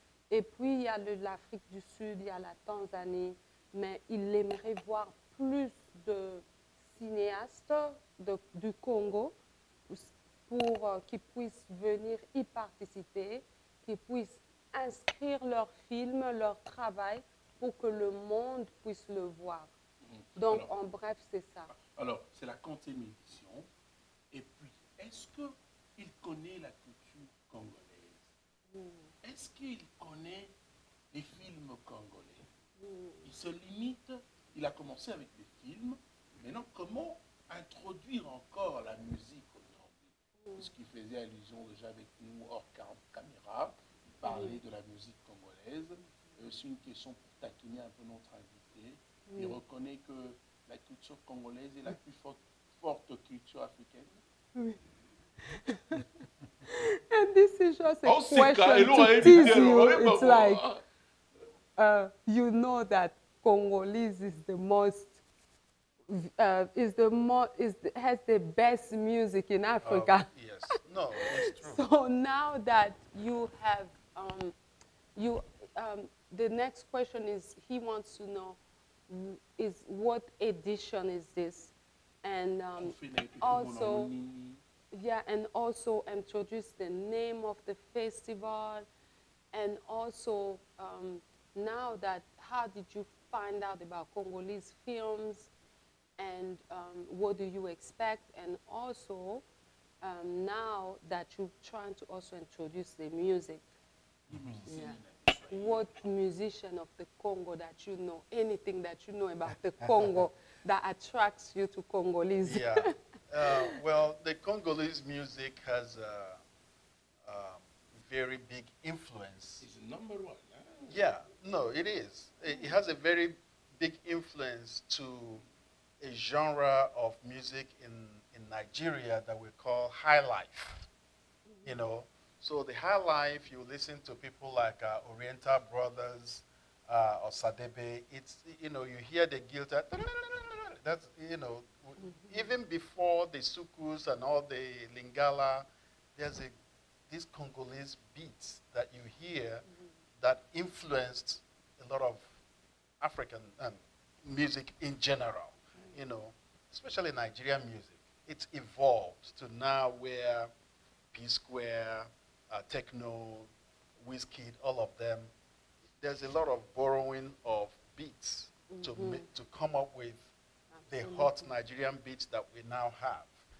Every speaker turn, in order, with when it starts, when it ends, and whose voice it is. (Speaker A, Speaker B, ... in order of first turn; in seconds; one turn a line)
Speaker A: 0.3-9.3
Speaker A: 9.9-19.7
Speaker B: 20.0-20.7
Speaker A: 20.4-21.7
Speaker B: 21.7-23.7
Speaker B: 24.3-28.3
Speaker A: 28.7-29.1
Speaker B: 29.2-30.5
Speaker B: 31.1-32.5
Speaker A: 32.8-33.2
Speaker B: 33.2-54.2
Speaker A: 40.4-40.7
Speaker A: 44.2-44.6
Speaker A: 49.3-49.6
Speaker A: 55.4-56.1
Speaker A: 56.6-60.6
Speaker B: 58.0-60.8
Speaker C: 59.2-59.5
Speaker A: 61.8-65.2
Speaker A: 66.1-70.8
Speaker C: 69.8-71.8
Speaker A: 71.4-74.5
Speaker A: 75.1-84.1
Speaker B: 82.8-84.6
Speaker A: 84.9-88.8
Speaker A: 89.5-95.5
Speaker A: 96.2-99.4
Speaker A: 100.0-103.7
Speaker B: 104.3-105.8
Speaker C: 104.3-104.7
Speaker A: 104.7-105.0
Speaker A: 105.5-112.9
Speaker C: 112.4-116.4
Speaker A: 113.5-113.7
Speaker C: 117.2-119.6
Speaker B: 119.6-121.0
Speaker C: 120.9-125.4
Speaker B: 122.5-122.8
Speaker C: 126.0-130.9
Speaker A: 131.5-131.8
Speaker C: 131.6-146.5
Speaker A: 142.0-142.4
Speaker C: 147.1-149.6
Speaker C: 150.2-152.3
Speaker C: 153.0-160.5
Speaker C: 161.1-165.3
Speaker C: 166.0-170.3
Speaker A: 168.7-169.2
Speaker A: 170.8-171.5
Speaker C: 170.9-173.3